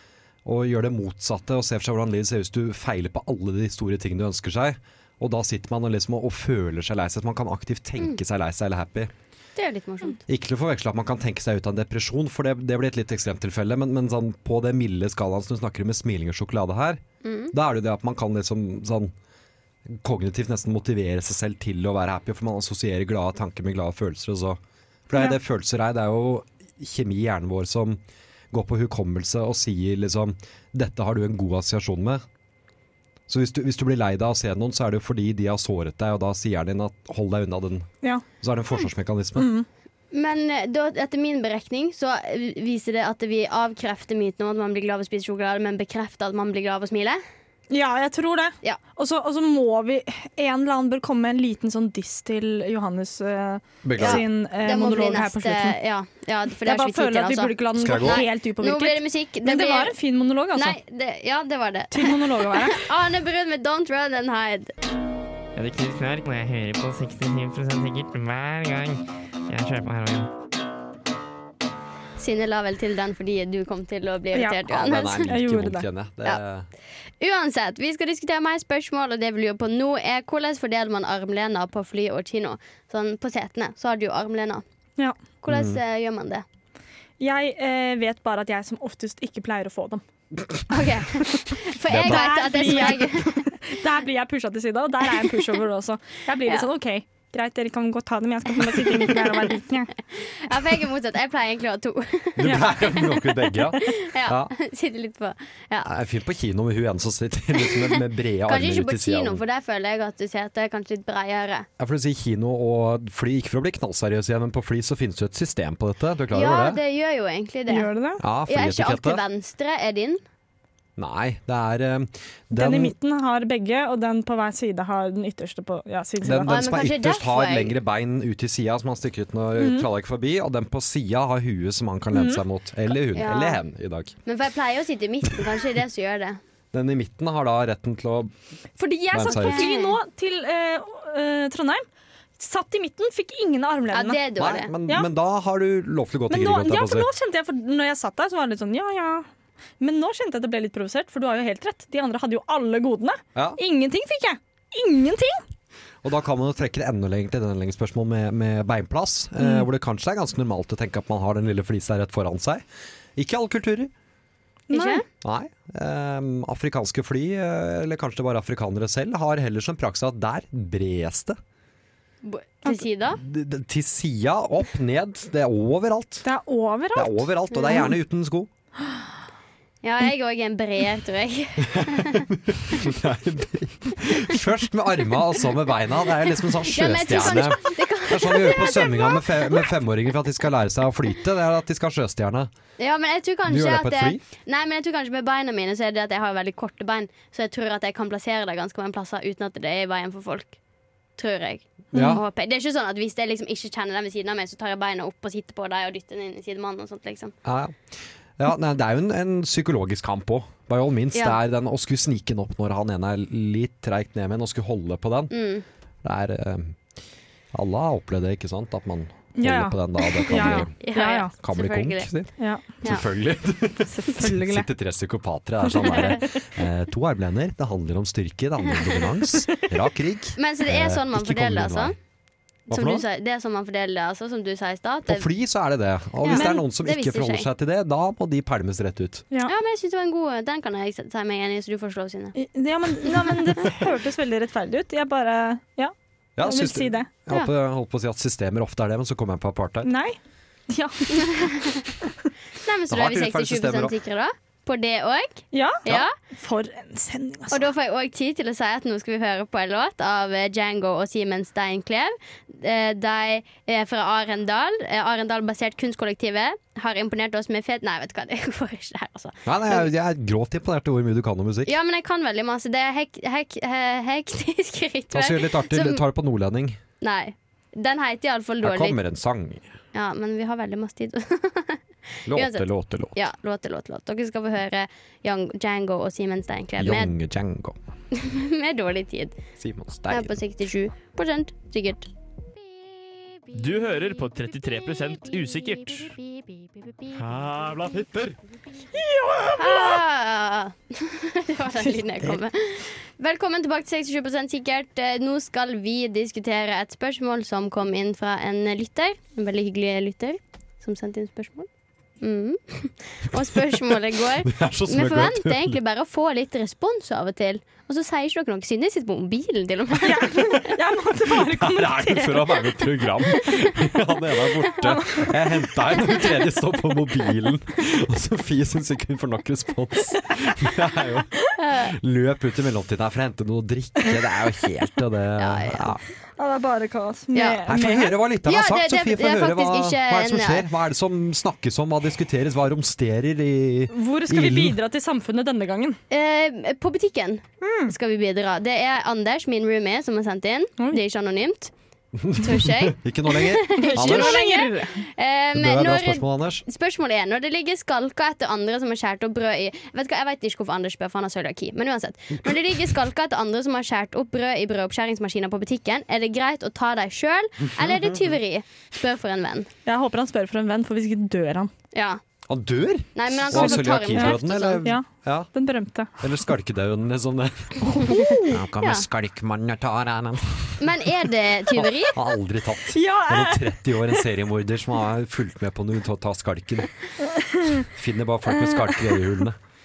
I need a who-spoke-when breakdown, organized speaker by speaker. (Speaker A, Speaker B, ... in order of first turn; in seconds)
Speaker A: 0.5-9.1, 10.3-17.0, 17.5-19.1, 19.9-28.0, 28.5-32.2, 33.3-37.9, 38.4-39.5, 53.8-54.2, 57.8-58.2, 74.7-76.7, 85.5-85.8, 91.9-92.4, 102.4-104.5, 105.8-109.4, 111.8-116.8, 118.2-119.2, 121.0-122.9, 126.2-134.2, 136.7-138.3, 139.1-139.7, 144.4-147.1, 156.0-162.6, 163.2-163.9, 165.2-171.4, 173.2-176.3, 176.9-178.5, 181.6-192.5, 193.5-194.2, 201.9-202.2, 207.4-215.3, 216.0-216.8, 217.5-220.7, 221.4-222.3, 222.8-231.9, 232.7-233.0, 235.1-239.2, 246.4-249.9, 252.9-253.9, 269.4-271.7, 275.1-276.8, 278.6-279.7, 282.3-283.2, 286.8-287.8, 289.6-290.4, 314.4-315.8, 321.4-336.0, 337.6-344.8, 352.2-354.4, 355.6-356.6, 367.8-368.3, 372.5-375.5, 376.2-380.9, 381.7-386.9, 387.8-389.6
Speaker B: 9.6-10.2, 17.2-17.5, 40.1-47.2, 54.0-59.9, 60.5-64.7, 72.2-75.3, 77.2-84.6, 85.4-86.5, 90.7-93.5, 98.7-99.2, 100.2-105.9, 107.6-111.7, 116.3-117.9, 118.5-120.2, 126.5-127.7, 133.1-133.6, 134.3-136.4, 139.3-140.0, 143.9-144.7, 164.7-165.0, 172.2-173.2, 177.5-177.8, 179.8-182.3, 186.7-189.7, 192.8-200.6, 201.2-207.3, 215.3-215.7, 220.3-222.1, 230.4-231.9, 232.7-235.3, 236.2-237.5, 239.5-242.3, 251.2-251.9, 252.6-256.1, 257.5-269.9, 271.7-276.0, 277.0-279.0, 279.9-281.8, 282.3-282.6, 283.1-287.1, 288.1-289.4, 290.1-292.1, 299.6-311.7, 312.2-320.7, 331.6-331.9, 335.4-336.0, 337.3-337.6, 338.5-340.7, 346.1-351.7, 352.3-369.7, 371.9-372.2, 373.1-374.9, 378.0-379.1, 380.8-382.2
Speaker C: 39.4-39.7, 47.7-55.8, 56.6-60.8, 61.9-62.8, 74.3-75.9, 87.2-90.0, 91.3-99.9, 117.7-118.2, 122.5-126.5, 129.6-129.9, 132.1-132.4, 138.8-141.8, 142.4-144.2, 146.3-149.3, 149.8-155.4, 159.4-159.7, 164.7-165.0, 176.2-177.3, 219.4-221.3, 222.4-222.6, 223.8-224.7, 236.3-236.6, 242.4-247.1, 249.8-250.2, 250.7-251.4, 255.5-257.7, 299.0-299.9, 320.0-322.7, 324.8-325.3, 336.4-338.1, 343.9-346.0, 347.6-347.9, 353.8-355.0, 369.9-371.7, 373.5-376.3, 377.9-378.5, 382.9-384.2, 387.4-387.9, 388.5-389.2
Speaker D: 65.5-70.3
Speaker E: 293.5-296.2, 297.1-298.4